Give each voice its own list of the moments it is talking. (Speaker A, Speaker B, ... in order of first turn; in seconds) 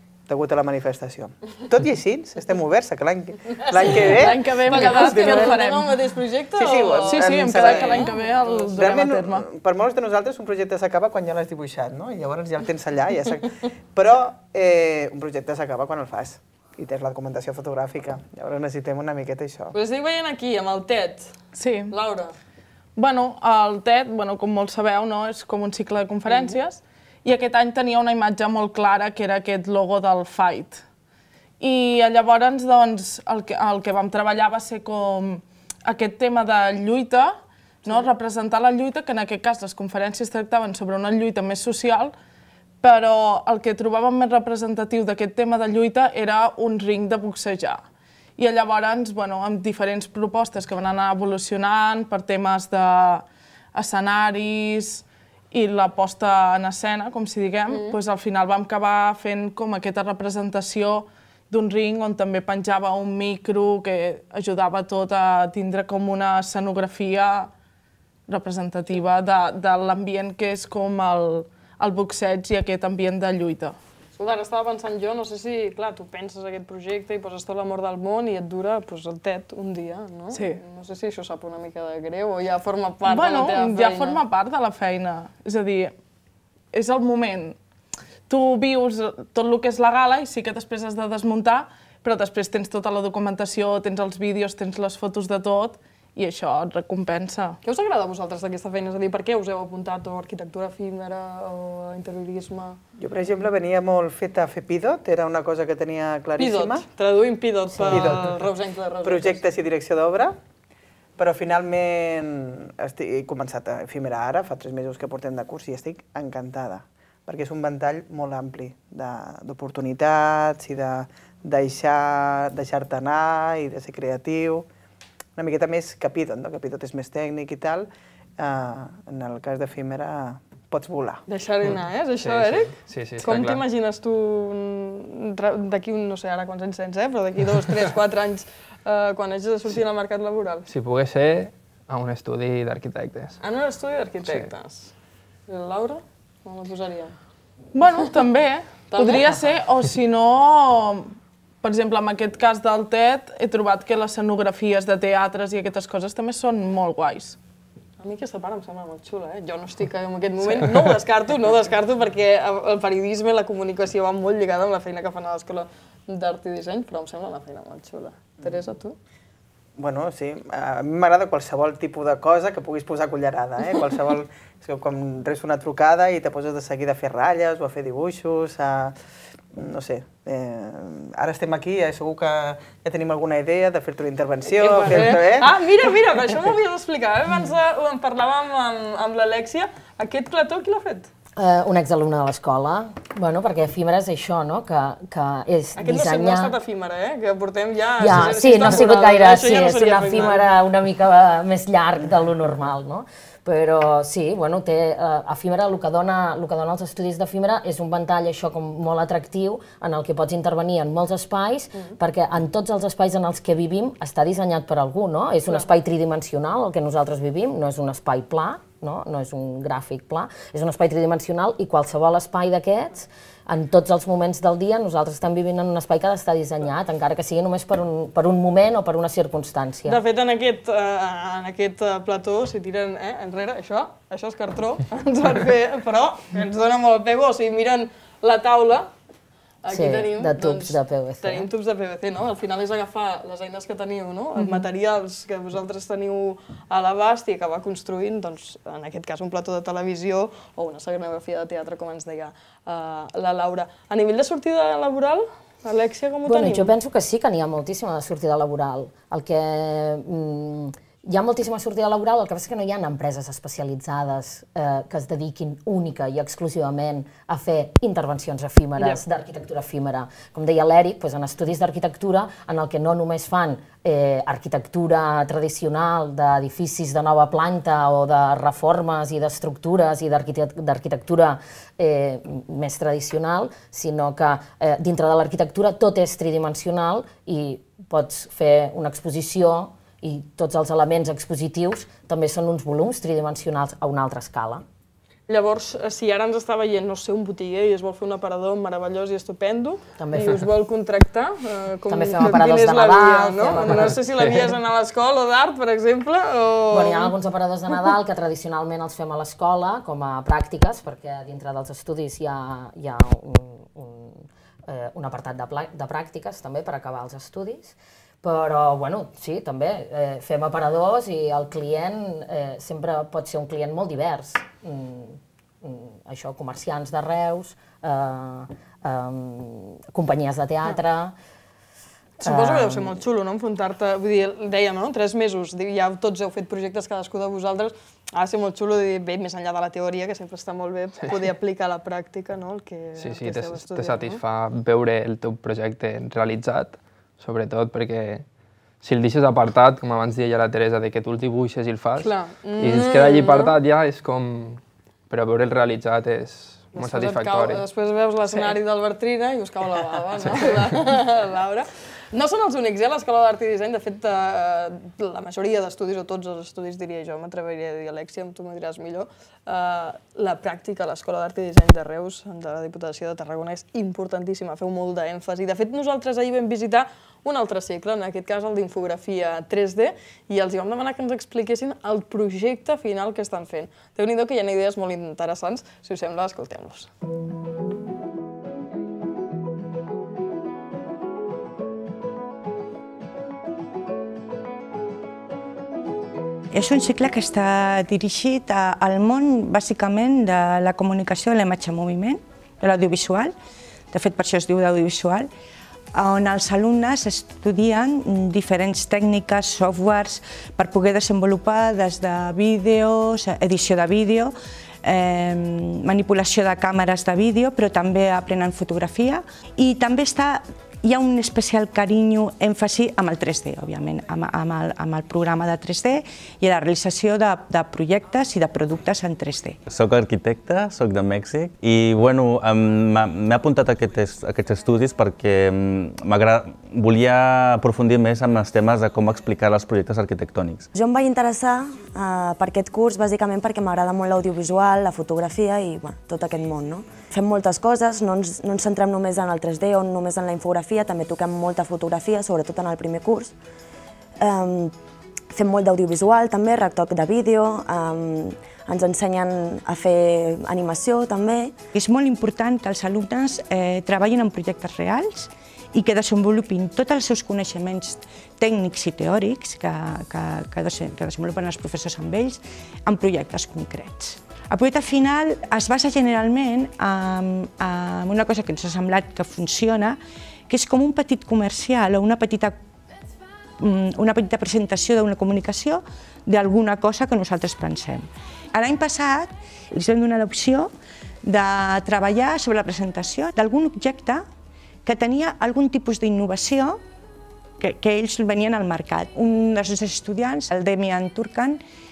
Speaker A: 0.3-5.7, 6.6-19.8, 103.0-106.8, 107.9-108.5, 109.0-110.3, 111.2-124.6, 125.4-127.9, 128.4-131.2, 169.8-178.9, 179.5-185.5
Speaker B: 3.8-5.9, 7.0-9.4, 21.5-21.9, 22.9-30.8, 31.6-42.1, 42.8-47.8, 48.4-67.5, 68.3-73.8, 80.3-80.6, 83.1-85.9, 86.7-87.6, 88.3-97.6, 147.7-157.4
Speaker C: 3.9-8.2, 19.7-22.3, 26.3-26.6, 57.7-58.0, 74.2-84.2, 97.6-102.8, 106.4-109.5, 131.3-140.7, 143.4-144.9, 145.5-147.1, 148.9-149.4, 158.0-168.9, 184.5-191.1, 195.8-200.4, 229.9-238.9, 239.6-256.7, 295.3-307.1, 332.2-344.2, 352.0-353.5, 356.7-386.9
Speaker D: 131.6-133.6, 140.7-143.4, 343.0-348.2, 348.8-357.6
Speaker E: 191.4-196.6, 198.0-230.0, 239.7-241.5, 256.2-294.6, 300.0-300.4, 301.9-304.0, 306.7-331.1, 332.2-332.9
Speaker F: 396.5-403.4, 403.9-405.3, 405.9-414.3, 414.8-429.6, 461.7-480.0, 480.5-482.6, 483.6-490.7, 491.2-494.2, 494.9-496.8, 497.6-501.6
Speaker G: 429.7-440.7
Speaker H: 440.7-453.3, 454.2-454.7, 455.3-461.5